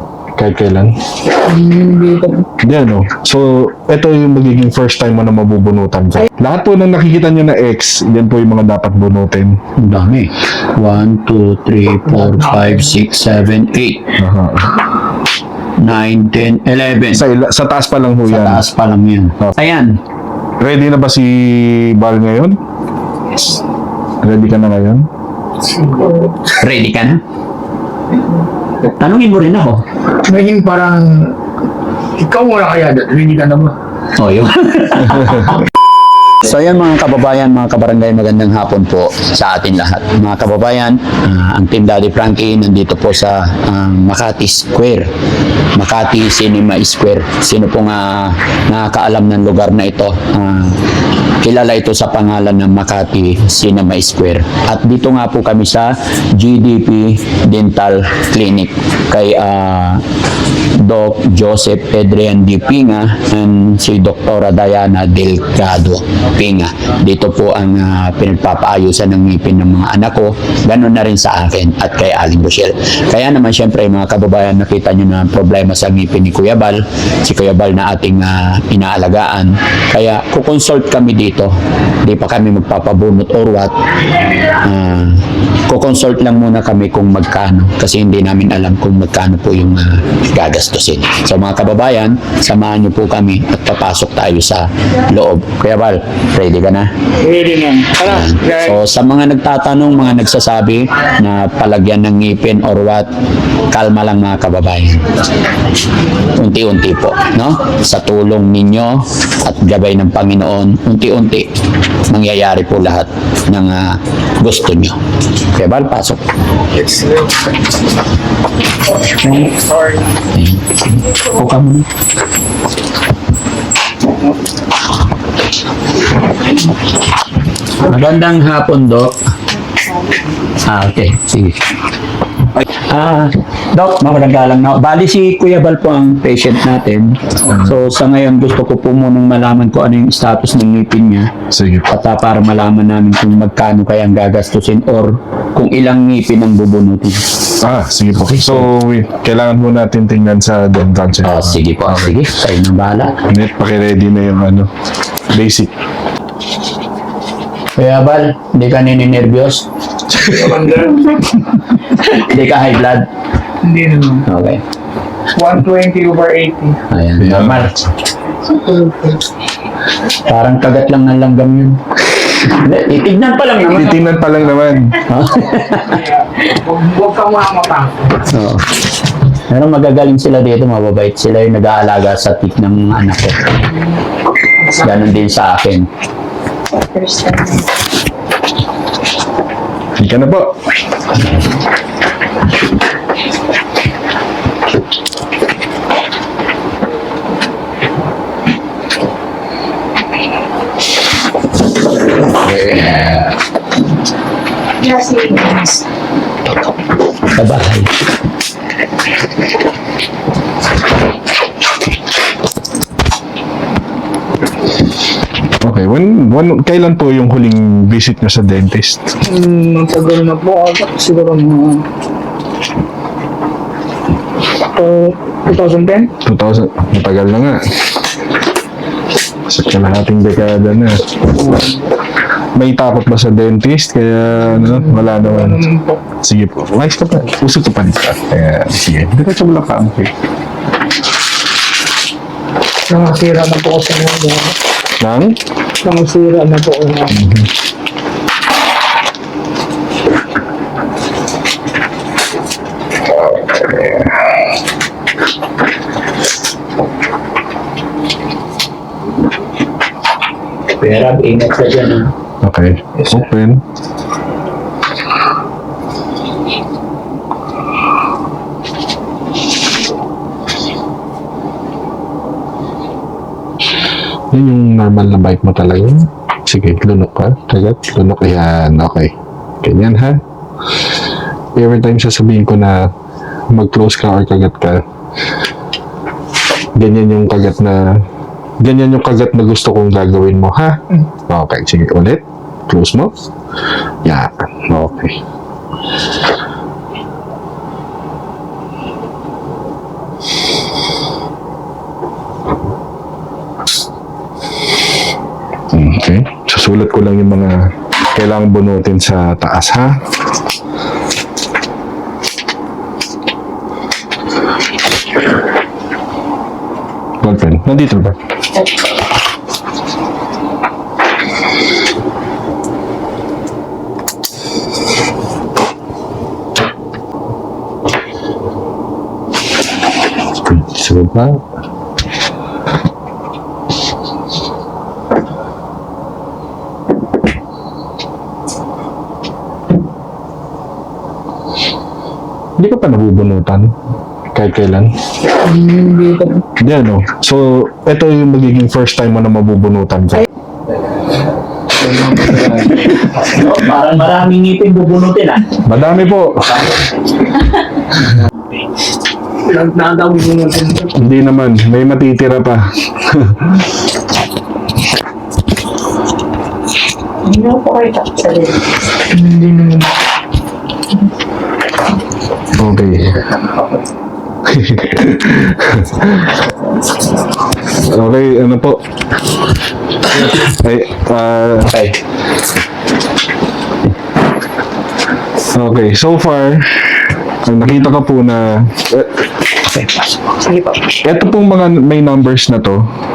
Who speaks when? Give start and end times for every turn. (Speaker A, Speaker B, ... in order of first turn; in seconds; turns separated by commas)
Speaker A: 0.4-0.9, Speaker B: 1.4-2.5, Speaker A: 2.6-9.6, Speaker C: 9.8-14.1, Speaker B: 12.1-13.0, Speaker A: 14.2-14.8, Speaker C: 15.8-17.2, Speaker A: 17.1-18.7, Speaker C: 18.3-20.0, Speaker A: 20.6-22.6, Speaker A: 24.2-25.1, Speaker B: 25.6-26.5, Speaker C: 26.6-27.2, Speaker C: 29.0-29.8, Speaker B: 30.2-31.4, Speaker B: 32.2-33.7, Speaker C: 34.2-35.6, Speaker C: 36.4-45.1, Speaker C: 45.8-50.8, Speaker C: 51.4-60.0, Speaker C: 60.7-83.8, Speaker C: 84.4-96.9, Speaker B: 97.2-98.8, Speaker C: 98.0-103.1, Speaker C: 103.7-105.1, Speaker C: 106.3-111.5, Speaker C: 112.1-115.0, Speaker C: 115.5-116.2, Speaker B: 116.7-117.6, Speaker B: 119.1-120.0, Speaker C: 119.2-119.5, Speaker C: 120.3-121.9, Speaker C: 127.8-129.2, Speaker D: 129.7-130.1, Speaker C: 130.7-131.6, Speaker C: 132.9-141.3, Speaker A: 137.5-137.7, Speaker A: 141.5-141.9, Speaker C: 141.9-147.2, Speaker A: 147.6-152.3, Speaker C: 148.2-148.7, Speaker C: 151.2-153.2, Speaker A: 153.3-154.7, Speaker A: 155.3-155.7, Speaker C: 157.8-159.7, Speaker B: 160.1-161.5, Speaker C: 161.9-163.1, Speaker B: 163.6-164.3, Speaker C: 164.3-164.6, Speaker B: 165.3-166.8, Speaker C: 166.9-167.8, Speaker A: 167.2-167.7, Speaker B: 168.4-169.2, Speaker C: 170.3-171.8, Speaker C: 172.3-174.0, Speaker B: 173.7-174.4, Speaker A: 173.7-175.0, Speaker C: 175.1-176.0, Speaker B: 175.3-178.2, Speaker C: 178.3-178.7, Speaker C: 179.5-183.6, Speaker C: 184.8-185.9, Speaker D: 186.8-187.7, Speaker A: 190.0-190.5, Speaker A: 202.2-203.3, Speaker D: 204.8-205.8, Speaker C: 207.3-207.9, Speaker A: 215.6-219.0, Speaker B: 219.3-221.8, Speaker B: 224.7-226.1, Speaker A: 226.2-227.6, Speaker A: 229.5-231.0, Speaker B: 231.4-231.8, Speaker A: 232.6-235.6, Speaker B: 234.6-236.0, Speaker A: 236.2-240.1, Speaker B: 242.9-244.6, Speaker A: 245.0-245.4, Speaker B: 245.8-247.3, Speaker A: 247.2-247.5, Speaker A: 253.1-254.3, Speaker C: 260.8-262.1, Speaker A: 262.4-263.6, Speaker A: 274.3-280.2, Speaker A: 281.6-282.9, Speaker A: 283.5-284.8, Speaker A: 286.8-288.0, Speaker A: 288.6-293.1, Speaker A: 294.0-295.2, Speaker A: 305.7-310.0, Speaker A: 317.2-318.2, Speaker A: 330.5-331.4, Speaker A: 342.6-343.8, Speaker A: 344.3-344.9, Speaker B: 345.4-346.4, Speaker A: 346.6-350.3, Speaker C: 352.7-355.4, Speaker A: 355.7-356.5, Speaker B: 359.5-361.0, Speaker A: 361.0-363.5, Speaker D: 367.2-368.6, Speaker B: 369.1-369.9, Speaker A: 372.6-373.2, Speaker A: 374.4-376.4, Speaker A: 377.8-378.8, Speaker A: 380.2-381.8, Speaker C: 381.7-381.9, Speaker A: 385.5-389.1, Speaker C: 389.7-390.1, Speaker D: 390.4-391.0, Speaker A: 391.1-392.9